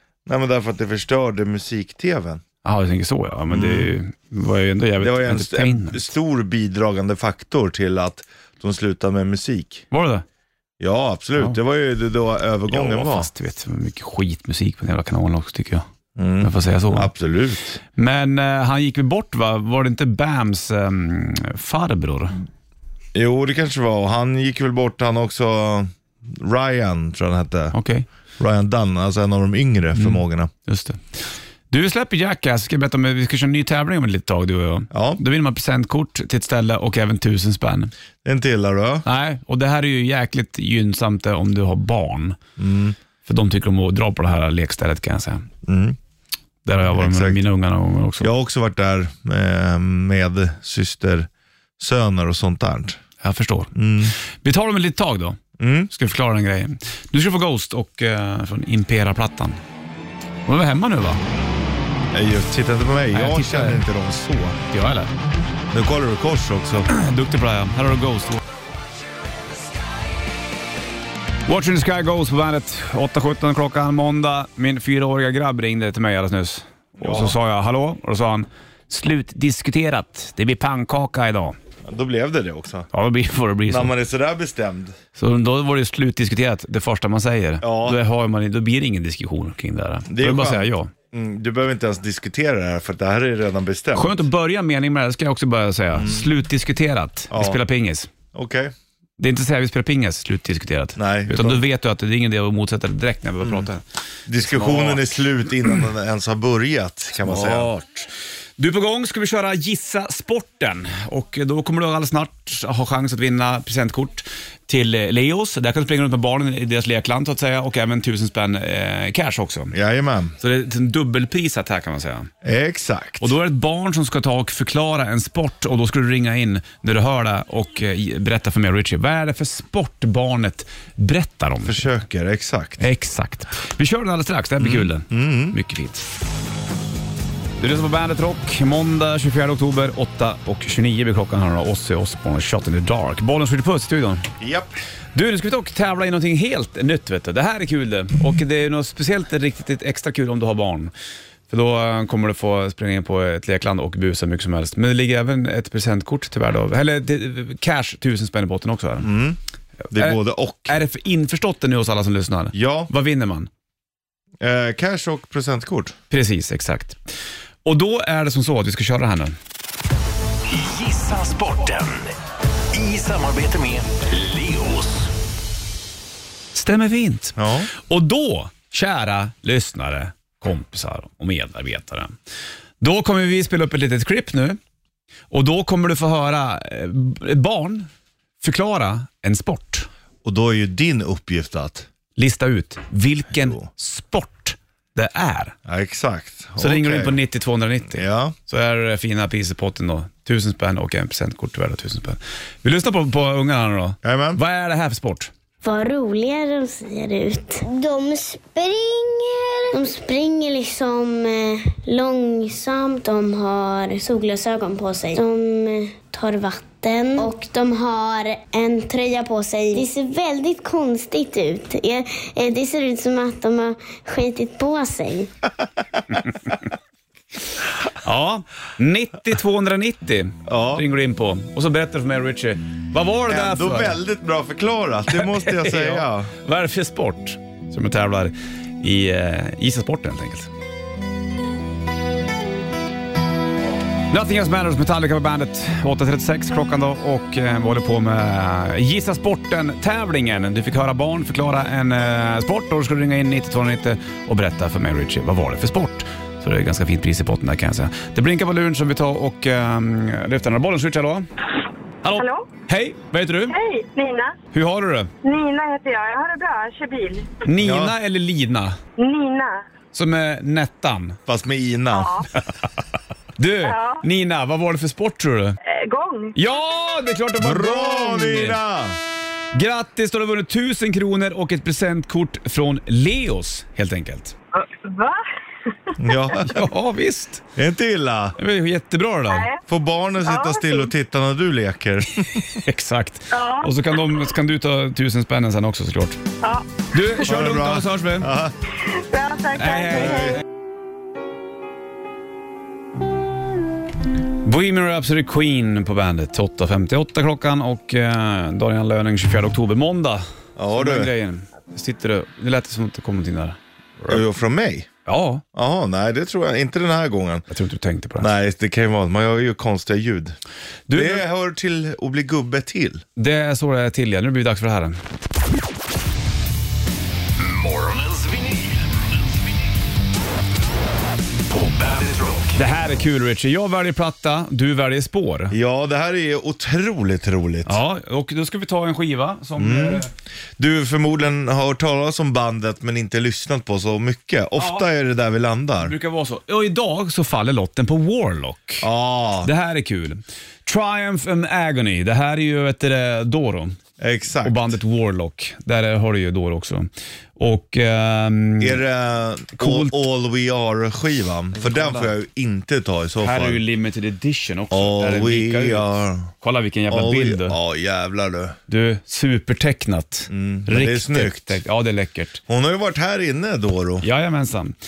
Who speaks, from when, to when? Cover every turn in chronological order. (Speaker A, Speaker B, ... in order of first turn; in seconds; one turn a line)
Speaker A: 0.2-2.4
Speaker B: 2.6-6.1
Speaker A: 3.5-3.9
Speaker A: 5.0-9.8
Speaker B: 9.9-10.2
Speaker A: 10.8-13.3
Speaker B: 12.7-15.8
Speaker A: 16.1-17.8
Speaker B: 16.4-17.1
Speaker B: 17.9-22.4
Speaker A: 23.1-27.7
Speaker B: 27.7-28.1
Speaker A: 28.4-30.5
Speaker B: 29.9-31.2
Speaker B: 31.7-37.9
Speaker A: 34.9-35.2
Speaker A: 38.2-39.0
Speaker B: 39.0-42.4
Speaker A: 42.6-43.0
Speaker B: 43.2-45.5
Speaker A: 45.6-46.0
Speaker B: 46.6-48.3
Speaker A: 46.8-47.4
Speaker A: 48.2-53.0
Speaker B: 53.2-53.7
Speaker A: 53.7-54.1
Speaker B: 54.4-55.4
Speaker A: 55.6-55.9
Speaker B: 55.9-59.6
Speaker B: 60.5-61.2
Speaker A: 62.1-64.6
Speaker B: 63.1-63.8
Speaker B: 64.7-65.1
Speaker A: 65.7-66.9
Speaker B: 66.9-68.4
Speaker B: 71.5-81.5
Speaker A: 77.0-77.3
Speaker A: 81.8-82.9
Speaker B: 82.9-83.9
Speaker A: 83.7-85.0
Speaker B: 85.2-90.9
Speaker A: 87.6-88.0
Speaker A: 90.1-94.2
Speaker B: 93.9-98.1
Speaker A: 95.9-96.3
Speaker A: 97.3-97.6
Speaker A: 98.3-98.7
Speaker B: 99.2-103.8
Speaker A: 101.0-101.6
Speaker A: 103.4-103.7
Speaker A: 104.3-107.7
Speaker B: 104.4-105.2
Speaker B: 107.2-119.7
Speaker A: 119.7-120.3
Speaker B: 120.4-122.3
Speaker A: 122.4-123.3
Speaker B: 123.2-131.9
Speaker A: 131.6-132.8
Speaker B: 132.8-136.1
Speaker A: 134.6-135.6
Speaker B: 137.6-144.3
Speaker A: 144.4-144.7
Speaker B: 145.1-150.9
Speaker B: 151.5-159.1
Speaker A: 159.0-159.4
Speaker A: 159.9-160.8
Speaker B: 159.9-163.5
Speaker A: 162.5-162.9
Speaker A: 164.4-165.9
Speaker B: 166.1-167.0
Speaker B: 167.6-169.3
Speaker C: 170.5-172.1
Speaker C: 172.7-175.1
Speaker B: 176.5-182.1
Speaker A: 177.4-177.7
Speaker B: 182.8-184.6
Speaker B: 185.3-187.9
Speaker B: 188.4-189.9
Speaker A: 190.2-191.9
Speaker B: 192.2-195.5
Speaker A: 193.4-193.7
Speaker A: 195.7-197.2
Speaker B: 196.6-205.3
Speaker A: 197.9-198.3
Speaker A: 204.0-204.4
Speaker D: 205.6-225.3
Speaker B: 226.1-226.5
Speaker B: 227.9-234.0
Speaker A: 230.4-230.8
Speaker A: 233.3-236.3
Speaker B: 235.1-240.5
Speaker B: 244.1-261.3
Speaker B: 262.0-263.6
Speaker E: 262.1-262.5
Speaker E: 263.5-264.3
Speaker B: 264.5-265.1
Speaker E: 265.2-267.3
Speaker B: 267.4-268.8
Speaker A: 267.6-267.9
Speaker E: 269.0-269.6
Speaker B: 269.9-271.2
Speaker A: 271.2-272.1
Speaker E: 271.9-272.3
Speaker B: 273.4-275.6
Speaker E: 273.6-274.0
Speaker E: 275.7-276.3
Speaker B: 276.3-278.6
Speaker A: 277.4-279.0
Speaker B: 279.5-284.3
Speaker E: 284.5-286.2
Speaker A: 286.0-286.7
Speaker B: 286.4-287.4
Speaker A: 287.6-288.4
Speaker B: 288.4-289.5
Speaker E: 289.3-289.6
Speaker A: 289.7-292.5
Speaker E: 290.2-290.9
Speaker B: 292.5-296.2
Speaker E: 293.3-294.2
Speaker E: 296.4-296.7
Speaker B: 296.9-298.3
Speaker A: 297.2-298.5
Speaker E: 298.9-300.4
Speaker B: 299.6-300.4
Speaker A: 300.1-300.3
Speaker B: 304.4-314.2
Speaker A: 310.6-311.1
Speaker A: 314.1-314.9
Speaker B: 315.0-315.4
Speaker A: 315.5-317.4
Speaker B: 317.5-318.3
Speaker A: 318.2-320.4
Speaker B: 320.9-321.2
Speaker A: 320.9-323.0
Speaker B: 323.2-325.0
Speaker C: 327.4-329.4
Speaker C: 331.5-332.6
Speaker B: 332.5-335.5
Speaker A: 335.5-337.8
Speaker B: 337.6-340.1
Speaker A: 339.6-340.0
Speaker A: 340.6-345.9
Speaker B: 344.6-344.9
Speaker B: 345.8-348.9
Speaker A: 348.8-349.5
Speaker B: 349.4-353.8
Speaker A: 354.0-354.7
Speaker B: 354.4-358.8
Speaker A: 358.6-363.6
Speaker B: 359.6-360.0
Speaker B: 361.5-362.1
Speaker B: 363.2-367.6
Speaker A: 364.7-366.3
Speaker A: 366.9-368.6
Speaker B: 368.7-372.4
Speaker A: 370.3-371.6
Speaker A: 372.5-374.0
Speaker B: 374.0-374.8